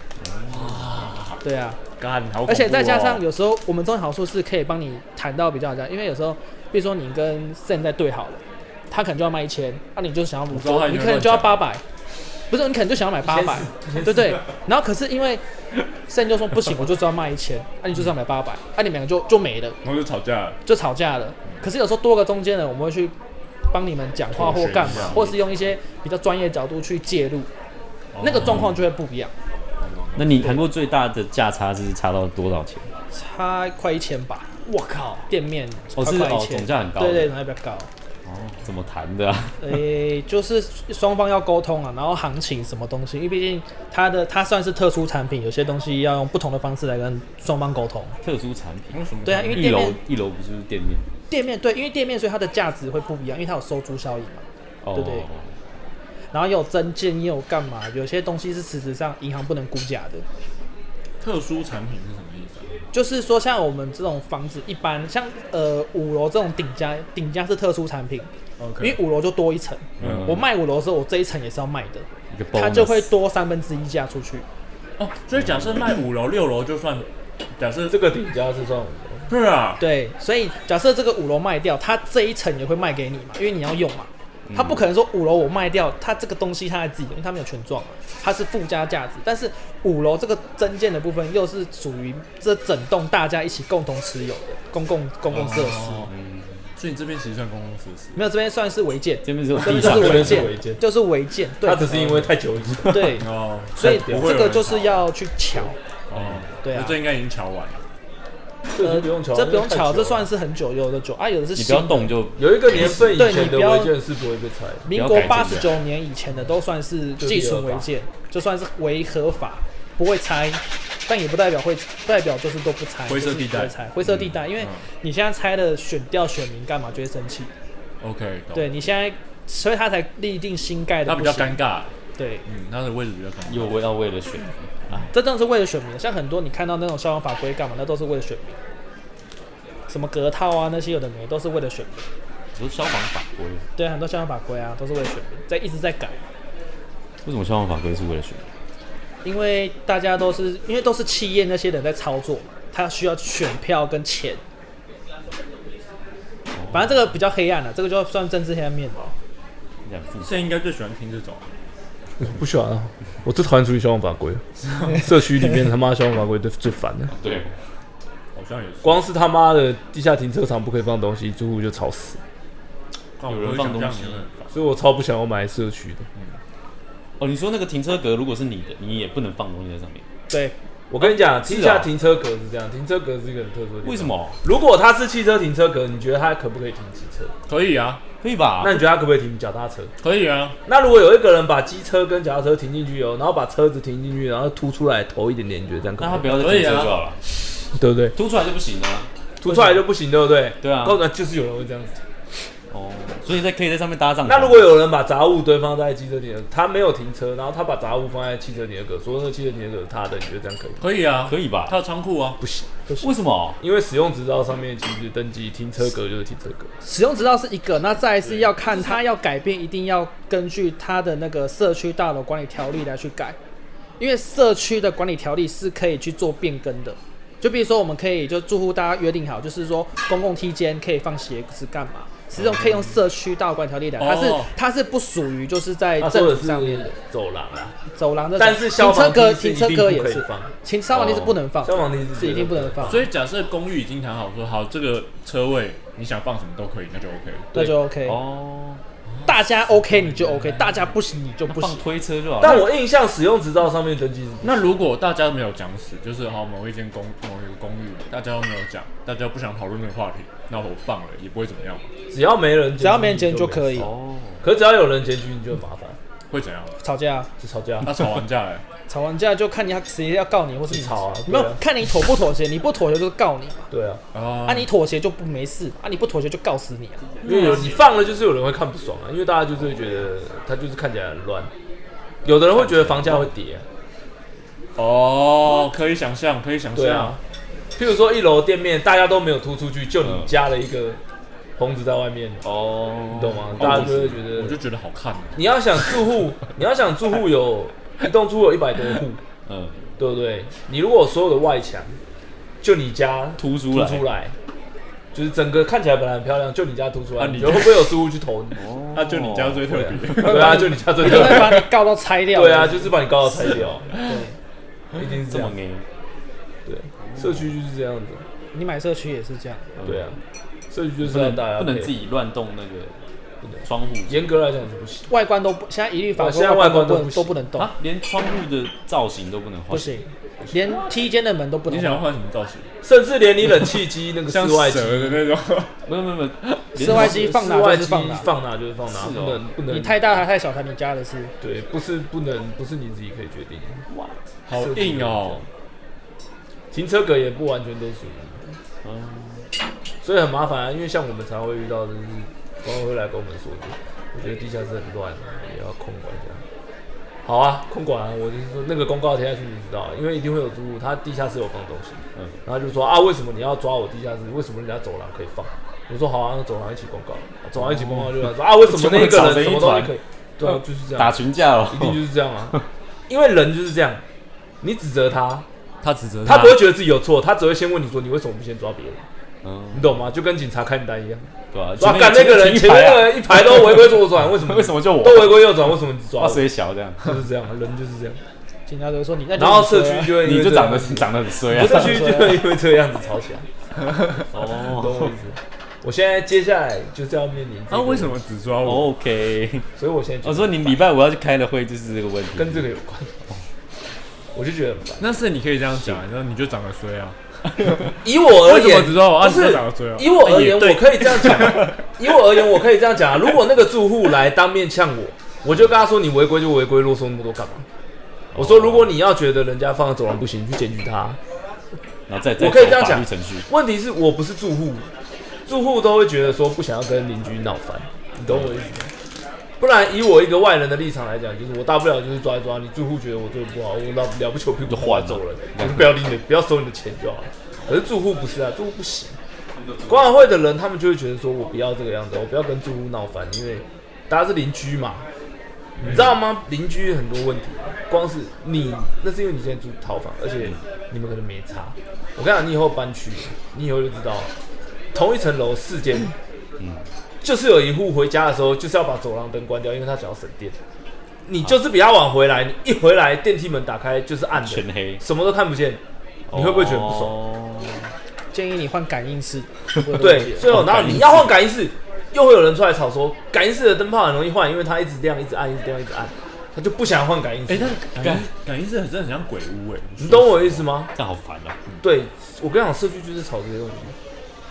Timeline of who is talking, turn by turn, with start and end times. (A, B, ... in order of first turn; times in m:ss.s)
0:00.2-0:01.0 A
0:00.5-0:01.4 B
0:01.4-0:01.8 C
0:02.0-0:03.2 B
0:02.5-0:11.8 C
0:10.5-0:11.7 B
0:12.5-0:15.4 C
0:13.2-0:14.4 D
0:16.1-0:19.8 C
0:19.8-0:20.6 B
0:20.6-0:23.1 C
0:23.7-0:27.5 C
0:24.4-0:25.3 B
0:24.8-0:25.3 A
0:28.1-0:28.8 B
0:28.2-0:29.3 C
0:28.4-0:28.8 A
0:29.8-0:30.6 B
0:30.2-0:32.9 A
0:33.1-0:34.5 C
0:34.7-0:35.3 A
0:35.3-0:37.9 C
0:35.9-0:37.3 A
0:38.2-0:39.7 A
0:39.6-0:48.2 C
0:48.2-0:49.0 A
0:48.9-0:49.9 B
0:49.2-0:50.0 C
0:49.5-0:51.1 A
0:51.3-0:55.3 C
0:54.8-0:55.5 A
0:56.3-1:00.2 C
1:01.2-1:02.7 B
1:02.9-1:14.5 C
1:08.6-1:09.0 B
1:10.0-1:10.4 B
1:10.0-1:10.4 A
1:12.3-1:13.1 A
1:15.0-1:18.0 B
1:17.9-1:19.3 D
1:19.3-1:19.8 B
1:19.8-1:36.1 C
1:24.5-1:24.8 A
1:35.3-1:36.1 B
1:36.1-1:36.7 A
1:36.8-1:38.2 B
1:38.2-1:42.3 C
1:39.2-1:40.5 A
1:39.6-1:40.8 D
1:41.6-1:43.2 D
1:42.9-1:43.2 C
1:43.2-1:45.0 B
1:43.8-1:44.4 D
1:43.8-1:45.8 C
1:46.1-1:47.8 B
1:46.1-1:46.4 A
1:46.6-1:47.0 C
1:48.7-1:50.3 D
1:48.8-1:52.2 C
1:51.6-1:53.4 A
1:52.4-1:54.9 D
1:53.1-1:53.9 C
1:54.9-2:07.5 C
1:54.9-1:55.7 A
1:57.2-1:57.9 D
2:03.1-2:04.9 B
2:08.0-2:08.8 B
2:08.5-2:11.6 C
2:11.1-2:11.9 B
2:12.2-2:12.4 C
2:12.4-2:13.8 B
2:13.5-2:15.1 A
2:15.1-2:18.6 C
2:19.9-2:22.1 C
2:22.6-2:23.7 A
2:23.8-2:26.2 C
2:27.2-2:28.5 A
2:29.2-2:34.4 C
2:36.5-2:37.0 A
2:36.7-2:39.1 C
2:39.8-2:40.4 A
2:40.2-2:41.5 B
2:42.2-2:47.2 D
2:44.6-2:45.2 B
2:47.1-2:47.5 A
2:48.4-2:49.0 B
2:48.8-2:52.2 D
2:53.2-2:54.5 B
2:53.3-2:54.2 A
2:54.5-2:56.1 D
2:57.2-3:00.1 A
3:00.3-3:00.6 C
3:00.9-3:07.3 D
3:01.0-3:01.9 A
3:03.8-3:04.4 A
3:07.5-3:08.0 B
3:08.2-3:08.8 A
3:08.6-3:09.9 D
3:10.0-3:10.6 B
3:10.7-3:16.4 D
3:16.0-3:17.2 A
3:16.3-3:17.0 B
3:17.7-3:18.2 D
3:18.2-3:19.1 A
3:19.4-3:22.0 D
3:20.6-3:21.0 A
3:22.7-3:24.7 A
3:24.3-3:30.8 D
3:30.8-3:32.4 B
3:31.3-3:31.8 A
3:32.4-3:32.7 D
3:33.0-3:33.6 A
3:33.6-3:36.7 D
3:36.8-3:43.4 C
3:38.2-3:39.0 B
3:44.0-3:56.9 C
3:54.0-3:54.5 B
3:56.0-3:57.8 D
3:58.0-4:03.0 C
3:58.4-4:00.5 D
4:00.9-4:01.4 A
4:01.6-4:03.0 D
4:02.9-4:07.6 B
4:07.5-4:08.2 C
4:07.6-4:08.8 A
4:09.1-4:10.9 B
4:09.3-4:11.9 C
4:11.5-4:12.7 A
4:12.4-4:14.6 D
4:14.4-4:21.9 B
4:22.1-4:23.9 D
4:22.8-4:23.9 C
4:23.8-4:24.4 A
4:24.4-4:26.0 D
4:26.3-4:26.8 B
4:26.8-4:27.3 C
4:27.4-4:28.1 D
4:27.8-4:28.6 B
4:28.9-4:33.7 C
4:30.7-4:31.6 D
4:33.7-4:34.0 D
4:34.1-4:34.7 B
4:34.5-4:37.0 C
4:37.2-4:37.9 B
4:37.2-4:41.5 D
4:42.2-4:43.7 D
4:42.5-4:43.2 A
4:44.8-4:47.2 B
4:46.8-4:47.2 D
4:47.8-4:51.0 D
4:50.0-4:50.3 A
4:51.6-4:52.4 D
4:52.4-4:54.0 A
4:53.1-4:54.6 D
4:53.6-4:55.6 B
4:55.4-4:59.2 D
4:59.5-5:00.0 A
5:00.0-5:02.0 D
5:02.6-5:04.4 D
5:03.4-5:04.0 A
5:05.1-5:08.6 D
5:07.2-5:08.0 B
5:08.6-5:10.0 A
5:08.9-5:11.7 B
5:09.7-5:11.7 D
5:10.2-5:13.0 C
5:12.3-5:13.9 D
5:13.4-5:13.8 A
5:13.9-5:14.2 B
5:13.9-5:14.4 C
5:14.9-5:15.6 D
5:15.0-5:15.8 A
5:16.7-5:18.2 D
5:17.0-5:17.4 A
5:18.5-5:19.7 C
5:19.8-5:20.1 A
5:19.8-5:20.2 D
5:20.7-5:21.9 D
5:21.0-5:23.0 A
5:23.4-5:25.1 D
5:23.6-5:24.2 A
5:25.1-5:27.7 C
5:26.2-5:27.3 D
5:27.6-5:30.0 A
5:29.7-5:32.1 C
5:31.7-5:32.7 B
5:32.8-5:35.2 D
5:34.3-5:35.7 B
5:35.9-5:37.2 A
5:36.8-5:38.3 C
5:36.8-5:40.0 D
5:38.9-5:39.4 A
5:39.7-5:41.3 C
5:41.4-5:43.8 D
5:43.9-5:44.2 A
5:44.5-5:45.4 B
5:44.5-5:45.5 D
5:46.7-5:48.4 D
5:48.8-5:49.5 A
5:50.0-5:56.4 D
5:57.2-6:14.0 D
6:07.6-6:12.0 A
6:14.6-6:15.5 D
6:15.8-6:16.6 B
6:16.2-6:19.1 D
6:19.4-6:20.0 A
6:19.7-6:26.5 D
6:21.5-6:27.2 A
6:27.0-6:28.2 D
6:28.7-6:30.2 C
6:29.4-6:33.5 D
6:30.2-6:32.2 A
6:31.5-6:32.4 C
6:34.3-6:35.1 A
6:34.3-6:38.2 D
6:37.7-6:38.9 B
6:38.6-6:39.7 A
6:39.8-6:40.8 D
6:40.2-6:42.7 A
6:42.4-6:43.2 D
6:44.3-6:45.0 D
6:45.0-6:51.8 B
6:47.5-6:47.9 A
6:48.0-6:57.7 D
6:58.3-6:58.9 A
6:58.4-7:01.2 D
7:02.1-7:03.5 A
7:02.4-7:04.9 D
7:05.5-7:08.9 D
7:09.6-7:19.2 D
7:14.7-7:15.9 A
7:19.5-7:20.3 A
7:19.9-7:25.1 D
7:25.8-7:34.3 D
7:34.9-7:36.2 D
7:36.6-7:36.9 A
7:37.2-7:40.6 D
7:41.3-7:47.2 D
7:44.4-7:45.0 A
7:46.3-7:47.9 A
7:48.3-7:50.5 C
7:50.0-7:57.8 D
7:50.4-7:51.4 A
7:57.5-8:00.6 B
7:58.0-7:58.3 A
8:00.0-8:00.9 D
8:00.9-8:01.6 A
8:01.8-8:04.0 D